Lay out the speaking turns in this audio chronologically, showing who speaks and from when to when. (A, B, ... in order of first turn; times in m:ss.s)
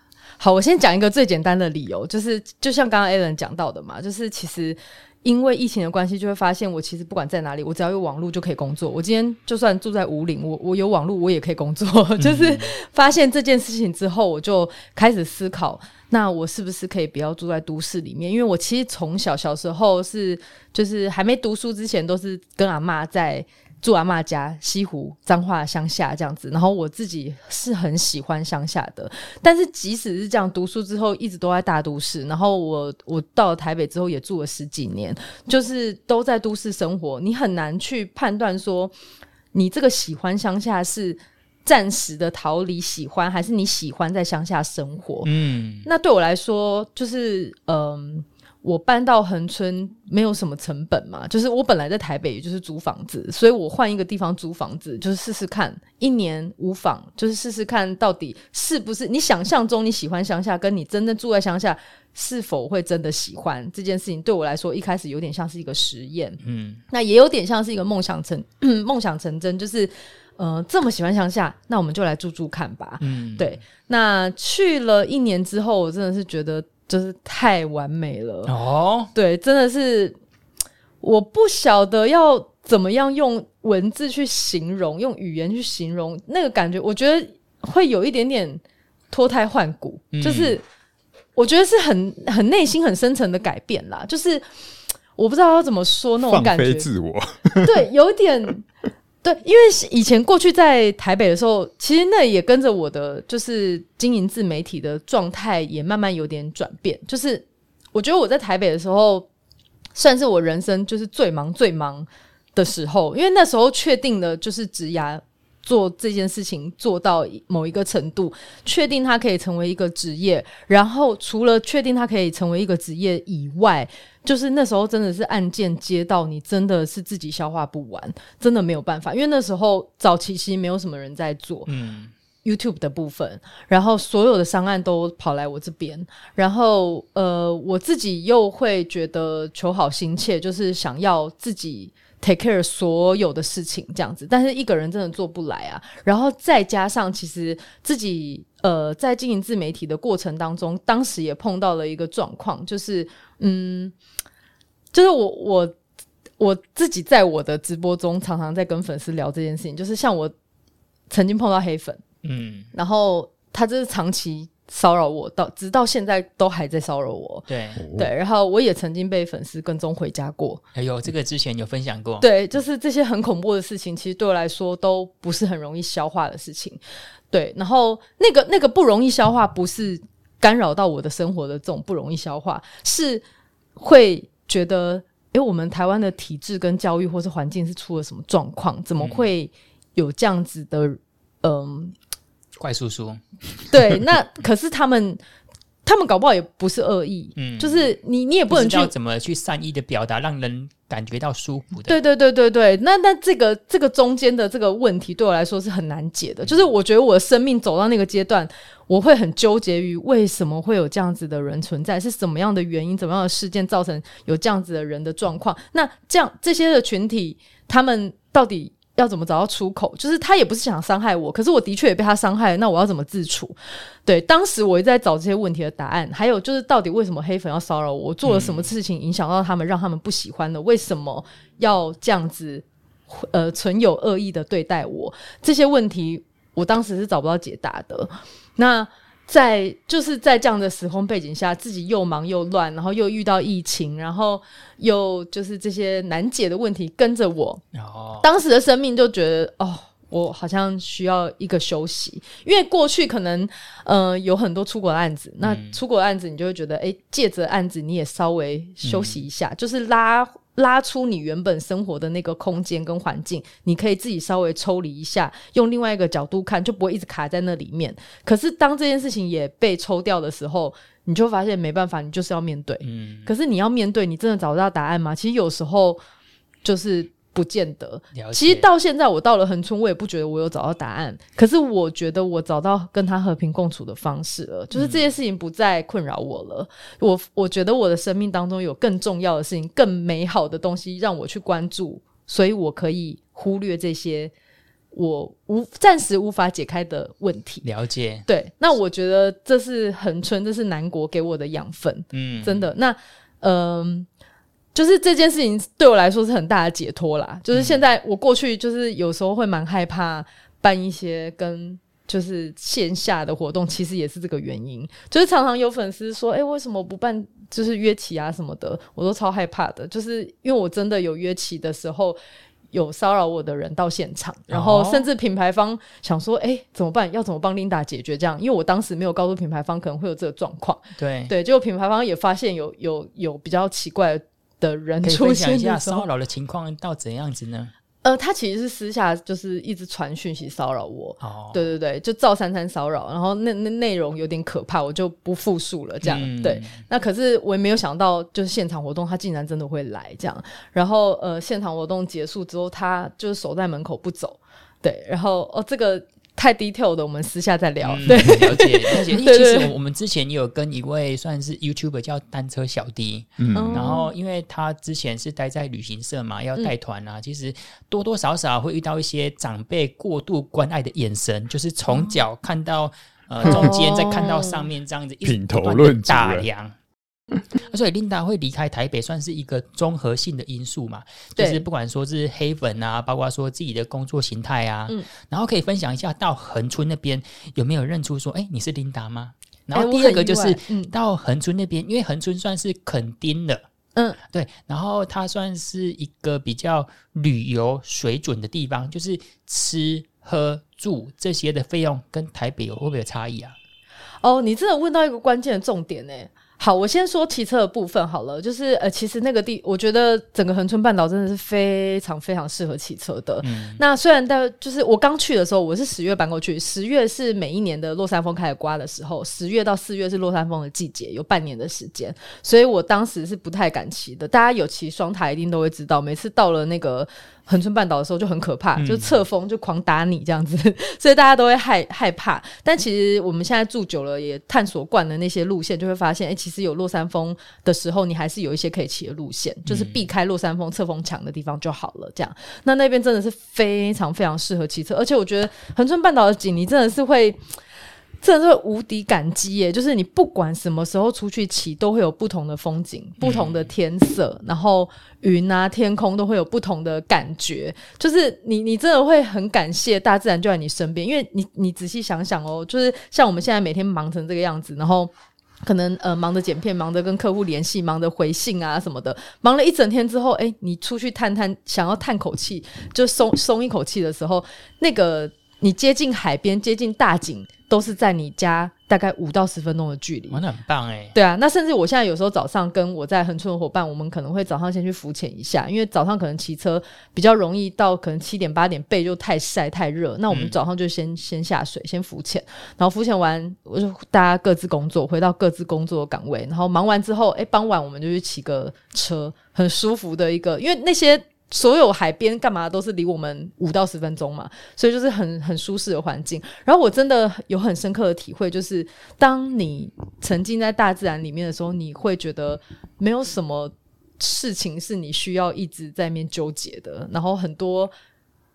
0:00.4-0:38.9 A
0:12.2-0:12.7 B
0:39.5-0:45.3 A
0:45.2-0:45.9 B
0:45.8-1:18.5 A
1:06.4-1:06.8 B
1:13.0-1:13.5 B
1:18.4-1:19.1 B
1:19.1-1:20.2 A
1:21.0-1:30.6 A
1:30.1-1:30.6 B
1:31.4-1:34.4 A
1:35.2-1:36.9 A
1:36.3-1:37.8 C
1:37.6-1:38.6 A
1:39.2-1:49.3 A
1:50.0-2:11.7 A
2:11.7-2:12.1 B
2:12.4-2:33.9 A
2:34.9-2:35.8 A
2:36.4-2:40.3 A
2:41.1-2:42.0 A
2:42.2-2:42.7 B
2:42.7-2:50.6 A
2:47.5-2:47.8 B
2:47.8-2:48.1 C
2:50.7-2:52.2 B
2:52.2-2:56.8 A
2:57.3-3:03.2 A
3:03.8-3:11.9 A
3:09.0-3:09.3 B
3:12.6-3:13.2 B
3:13.7-3:15.2 A
3:15.8-3:18.9 A
3:17.4-3:17.9 B
3:18.5-3:22.0 B
3:21.9-4:07.6 A
3:48.2-3:48.7 B
4:07.7-4:08.2 B
4:08.2-4:36.0 A
4:15.4-4:15.8 B
4:18.8-4:19.2 B
4:32.8-4:33.3 B
4:36.6-4:54.3 A
4:38.1-4:38.6 B
4:44.7-4:45.0 B
4:54.9-4:57.6 A
4:57.6-4:58.2 B
4:58.2-5:04.1 A
5:02.1-5:02.7 B
5:04.7-5:22.2 A
5:22.7-5:36.0 A
5:24.5-5:25.1 B
5:31.0-5:31.3 B
5:35.0-5:37.7 B
5:38.0-5:59.7 A
5:41.2-5:41.6 B
5:46.0-5:46.8 B
5:57.8-6:16.7 B
6:03.4-6:04.0 C
6:03.5-6:04.1 A
6:13.4-6:14.6 A
6:15.2-6:16.4 C
6:17.5-6:33.6 B
6:21.4-6:21.6 A
6:29.7-6:30.9 A
6:34.2-6:43.6 B
6:44.2-7:27.4 A
6:53.4-6:53.8 B
7:08.8-7:09.2 B
7:19.6-7:20.0 B
7:28.2-7:45.1 A
7:33.2-7:33.6 B
7:45.6-8:00.4 A
8:00.3-8:01.1 B
8:01.1-8:37.9 A
8:10.3-8:10.5 B